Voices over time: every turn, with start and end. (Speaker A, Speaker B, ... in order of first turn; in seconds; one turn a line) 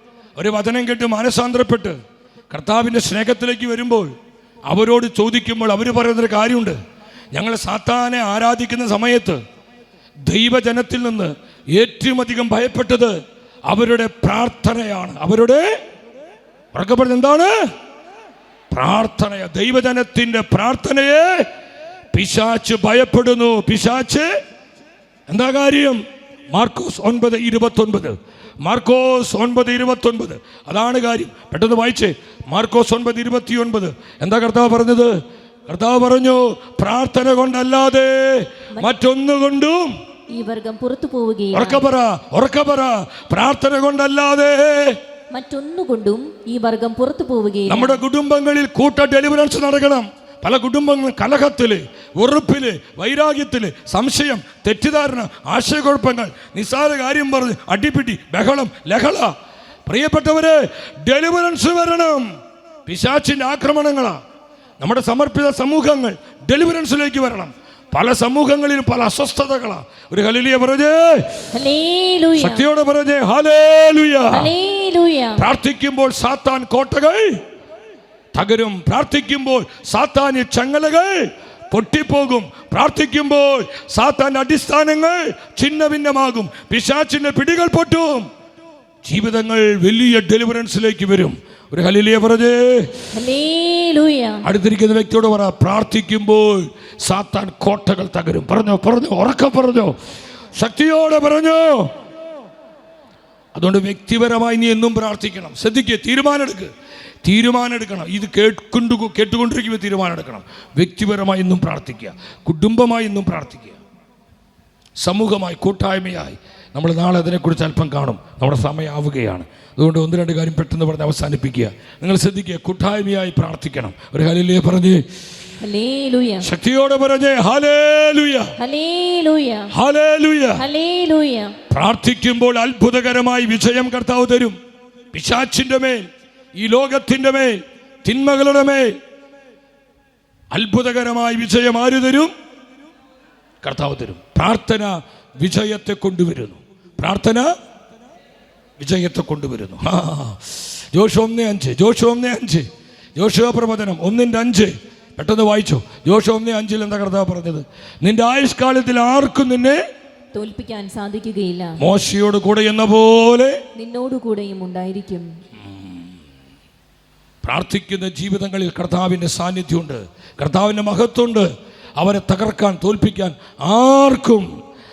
Speaker A: 0.3-2.0
Speaker A: 2.5-4.1
Speaker A: 4.7-6.8
Speaker A: 7.3-9.4
Speaker A: 10.2-13.2
Speaker A: 13.7-15.7
Speaker A: 16.7-17.6
Speaker A: 18.7-21.5
Speaker A: 22.1-24.3
Speaker A: 25.3-26.0
Speaker A: 26.5-35.1
Speaker A: 35.7-39.9
Speaker B: 40.3-41.8
Speaker A: 41.5-45.0
Speaker B: 45.3-48.0
Speaker A: 47.7-59.3
Speaker A: 59.9-62.3
Speaker A: 62.9-64.2
Speaker A: 64.8-71.4
Speaker B: 71.5-72.6
Speaker A: 72.4-74.5
Speaker B: 74.3-75.4
Speaker A: 75.4-77.4
Speaker A: 78.3-88.3
Speaker A: 89.0-92.9
Speaker B: 93.1-94.4
Speaker A: 94.4-99.9
Speaker A: 100.5-101.9
Speaker A: 103.5-106.7
Speaker A: 107.2-113.8
Speaker A: 115.0-125.0
Speaker B: 125.6-126.5
Speaker A: 126.4-128.5
Speaker B: 128.6-129.7
Speaker A: 129.7-130.6
Speaker B: 130.6-131.6
Speaker A: 131.7-134.6
Speaker A: 135.1-136.0
Speaker A: 136.6-139.0
Speaker A: 140.5-142.3
Speaker A: 143.6-147.5
Speaker A: 148.8-159.8
Speaker B: 160.3-161.8
Speaker A: 161.8-163.6
Speaker B: 163.8-165.3
Speaker A: 167.4-174.5